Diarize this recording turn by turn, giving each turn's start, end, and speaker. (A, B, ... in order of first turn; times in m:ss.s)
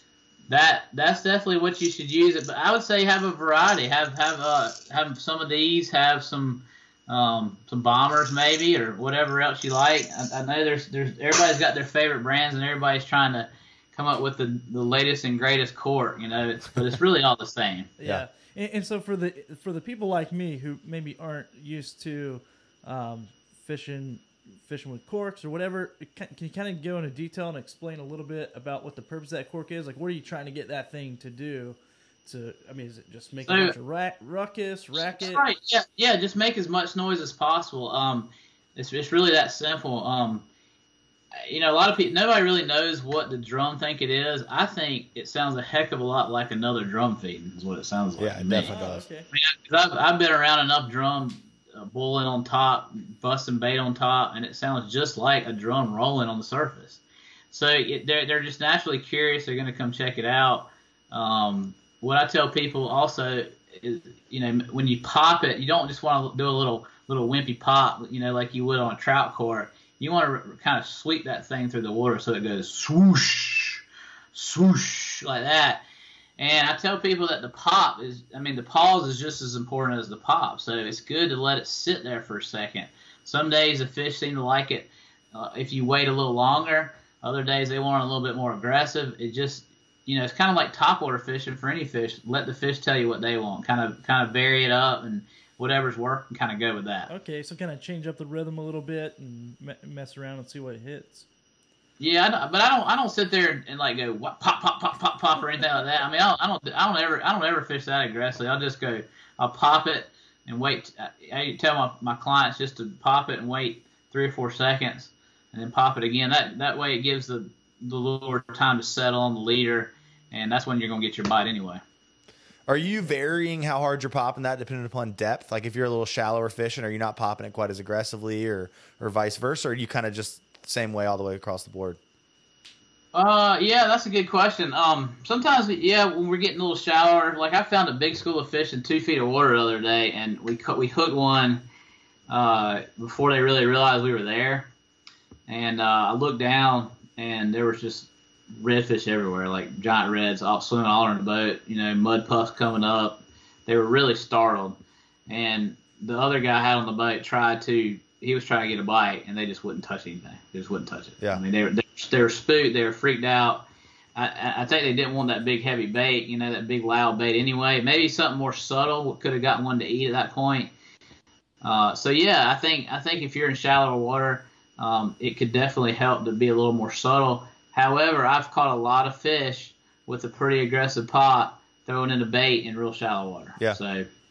0:00.5-0:17.9 A
0:18.0-0:35.4 B
0:33.4-0:33.7 A
0:35.2-0:40.4 A
0:41.4-0:48.7 A
0:48.2-0:49.0 C
0:48.5-0:49.3 B
0:49.3-1:15.8 A
1:16.4-1:37.1 A
1:37.1-1:41.3 B
1:42.0-2:01.8 A
2:02.7-2:12.0 C
2:13.1-2:21.6 A
2:22.3-2:24.7 A
2:25.5-2:50.7 A
2:51.6-3:04.1 A